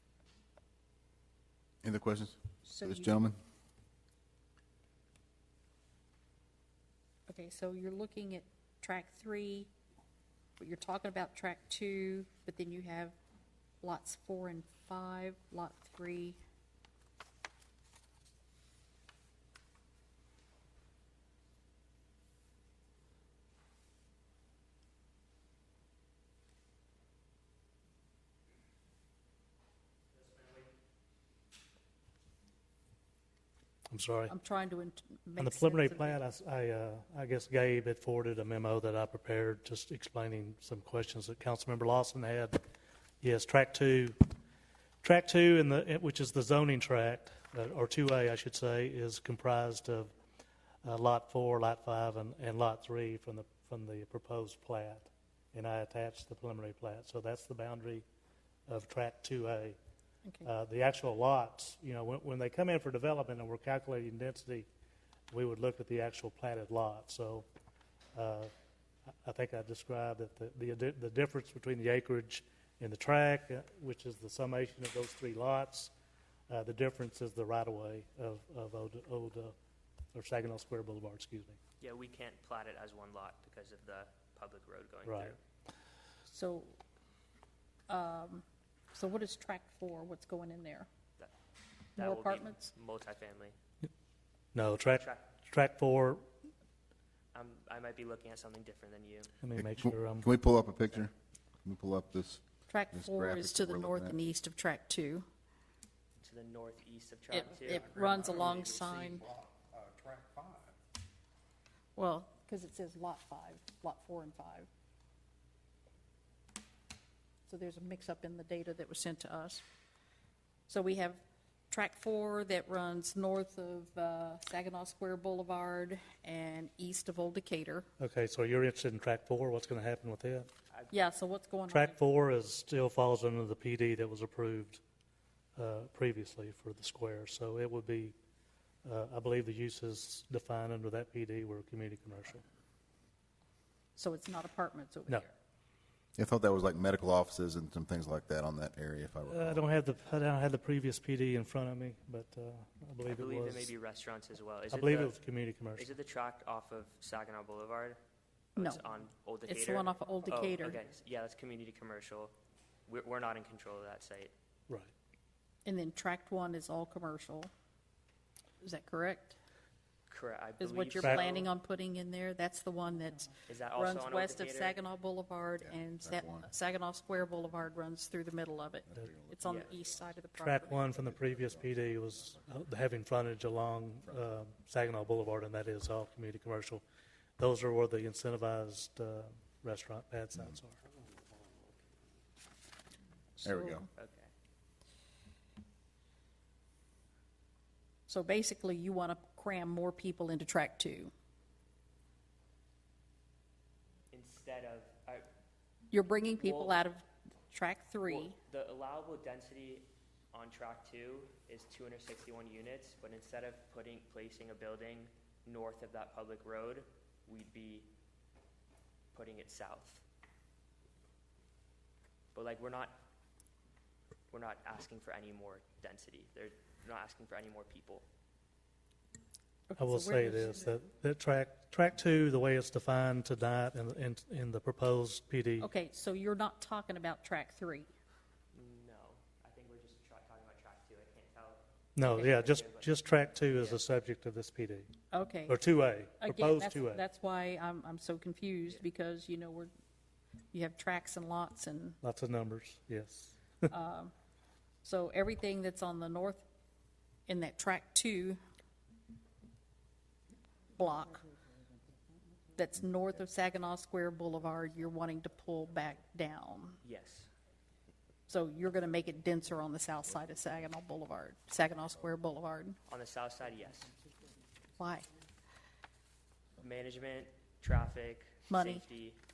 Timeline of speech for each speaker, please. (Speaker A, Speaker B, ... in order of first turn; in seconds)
Speaker A: 1.8-3.4, 99.6-101.1, 101.6-104.2, 146.2-149.6, 175.6-176.5, 178.9-179.7, 180.9-182.3, 193.4-193.9
Speaker B: 2.6-3.2, 7.3-9.7, 10.6-13.2, 13.8-16.4, 34.3-36.2, 86.3-86.8, 87.9-90.9, 92.0-92.7, 102.7-105.3, 107.3-109.2, 112.0-114.7, 117.5-119.6, 120.7-127.9, 130.9-132.0, 144.0-145.3, 159.5-160.8, 165.7-167.5, 168.6-169.4, 170.6-180.9, 193.4-193.9, 198.1-201.1, 205.9-208.4, 229.7-230.7, 235.6-237.9, 245.1-245.6, 246.2-249.7, 250.5-252.0, 253.7-254.1, 254.8-256.4, 257.3-258.4, 260.8-261.3, 262.6-266.8, 268.3-272.8, 274.8-275.1, 278.5-278.9
Speaker C: 33.9-34.3, 35.4-42.6, 43.2-44.2, 45.0-50.1, 50.8-58.0, 58.7-59.8, 60.4-64.7, 65.3-67.5, 68.2-68.5, 69.2-75.9, 76.5-79.5, 80.1-81.6, 85.0-85.4, 94.5-96.2, 99.4-100.3, 128.0-130.5, 131.7-134.8, 135.6-138.2, 138.8-142.4, 149.3-153.7, 154.7-155.9, 171.0-171.3, 180.4-186.8, 187.4-190.8, 229.8-235.7, 242.0-244.9, 245.5-247.0, 252.0-253.7
Speaker D: 81.8-85.4, 92.0-93.5, 94.9-95.4, 97.3-99.3, 106.2-109.0, 153.1-155.2, 155.8-158.0, 158.6-162.3, 162.9-164.3, 170.1-171.5, 173.5-174.8, 179.4-179.8, 194.0-194.3, 204.1-205.3, 206.3-206.9, 208.1-217.9, 219.1-220.0, 222.3-223.0, 224.3-228.1, 238.5-243.8, 266.8-267.3, 272.9-274.0, 276.6-279.2
Speaker E: 107.7-110.8